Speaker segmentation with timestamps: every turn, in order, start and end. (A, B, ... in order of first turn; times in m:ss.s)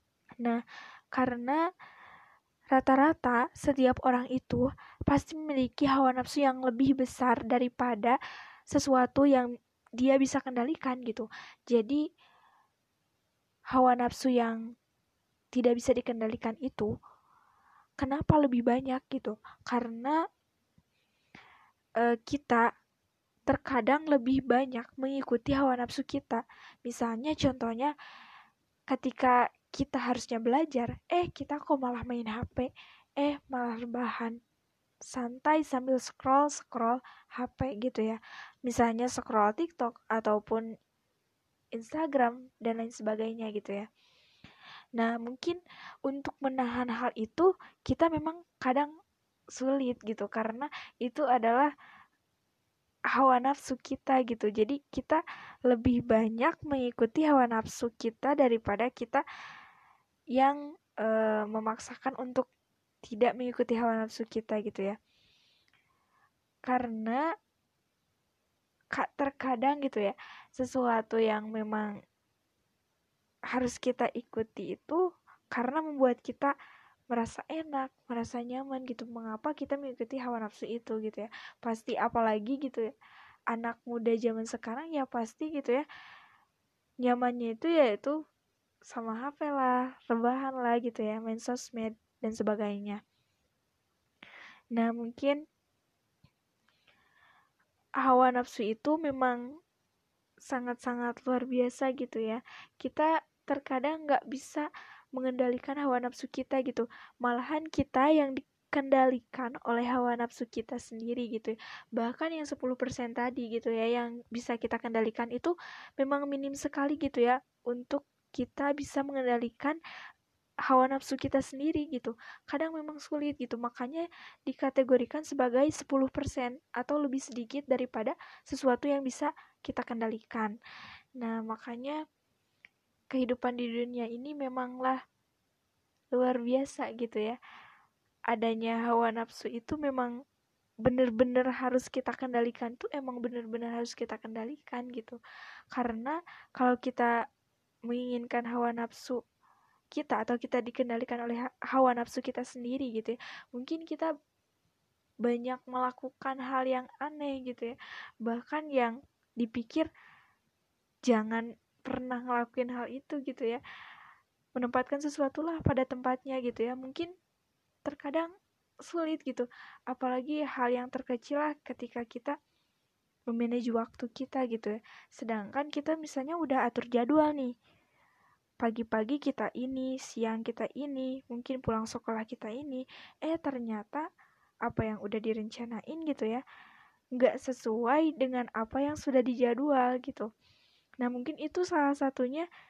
0:01.1-0:01.6 A
0:02.7-0:08.2 A
0:08.7-0:09.5 A
0:10.0-0:12.0 A
0:13.7-0:14.6 A
0:15.5-0:16.9 A
0:18.0-0:20.2 A
0:22.0-0:22.6 A
0:23.5-0:27.9 A
0:28.9-0:34.4 A
0:35.1-0:40.6 A
0:41.8-0:43.9 A
0:45.0-0:48.9 A
0:49.6-0:51.7 A
0:53.1-0:59.2 A
1:00.4-1:02.5 A
1:03.1-1:05.0 A
1:06.7-1:07.2 A
1:08.9-1:11.9 A
1:13.5-1:15.0 A
1:15.5-1:16.5 A
1:17.1-1:22.9 A
1:23.5-1:25.9 A
1:27.0-1:28.2 A
1:28.9-1:33.0 A
1:34.7-1:35.4 A
1:38.0-1:39.4 A
1:40.5-1:59.8 A
2:00.7-2:10.6 A
2:11.2-2:12.0 A
2:13.1-2:15.0 A
2:16.1-2:17.4 A
2:18.3-2:20.1 A
2:20.8-2:25.2 A
2:25.7-2:27.1 A
2:27.9-2:29.2 A
2:29.9-2:34.1 A
2:35.2-2:39.9 A
2:41.1-2:43.6 A
2:44.6-2:47.1 A
2:47.9-2:48.3 A
2:48.9-2:52.3 A
2:53.3-2:57.5 A
2:58.6-3:04.0 A
3:04.6-3:06.4 A
3:07.2-3:10.3 A
3:11.0-3:12.5 A